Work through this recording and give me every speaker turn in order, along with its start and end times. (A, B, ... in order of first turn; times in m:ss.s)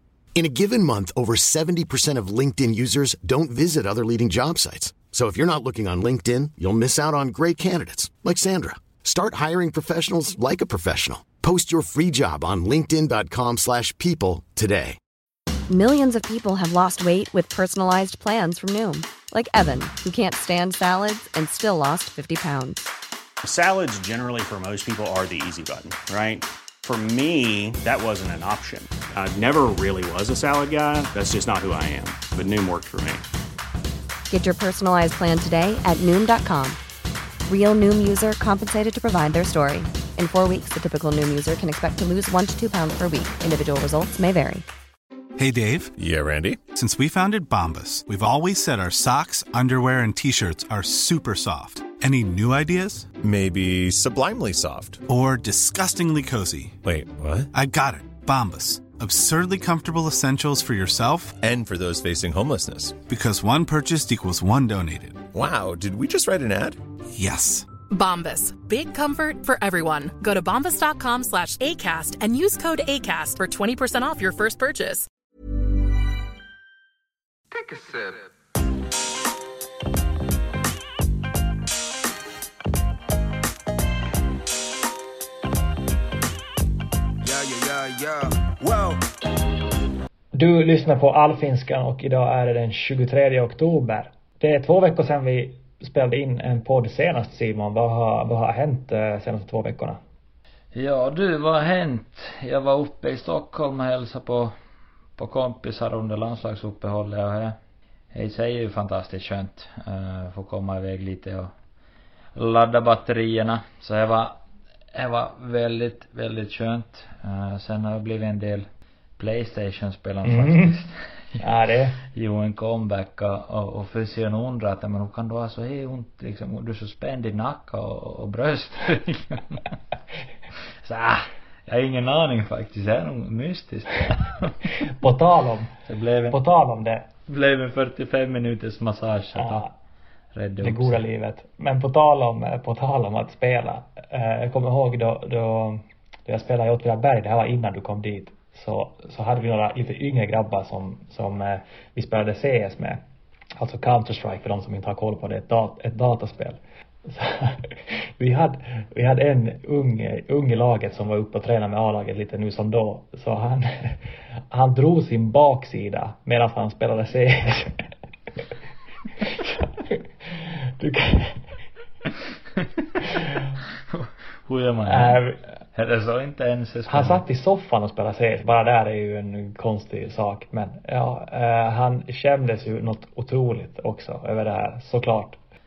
0:00.4-0:15.0 A
0:15.7-0:22.8 B
0:23.4-0:33.2 C
0:34.3-0:36.8 B
0:37.5-0:44.6 B
0:45.4-0:46.0 D
0:46.0-0:46.6 E
0:46.7-0:53.1 D
0:53.2-0:55.0 E
0:55.1-0:56.8 D
0:56.8-0:57.5 E
0:57.5-1:01.4 D
1:01.4-1:03.0 E
1:03.1-1:05.2 D
1:05.3-1:06.8 E
1:07.1-1:07.7 D
1:07.9-1:15.1 F
1:17.5-1:18.3 G
1:27.2-1:29.0 G
1:30.3-1:40.0 H
1:40.7-1:44.5 I
1:45.2-1:47.6 I
1:48.1-1:51.5 I
1:52.4-1:54.4 I
1:54.9-2:01.4 I
2:00.2-2:00.7 H
2:01.4-2:02.0 H
2:02.0-2:09.7 I
2:10.8-2:14.7 I
2:15.0-2:15.7 H
2:15.9-2:16.4 I
2:16.3-2:17.1 H
2:17.3-2:19.7 I
2:19.4-2:19.7 H
2:20.3-2:21.0 I
2:20.6-2:33.0 H
2:33.6-2:44.0 H
2:44.5-2:47.8 H
2:49.2-2:51.5 H
2:53.9-2:57.2 I
2:54.9-2:55.4 H
2:56.9-3:05.4 H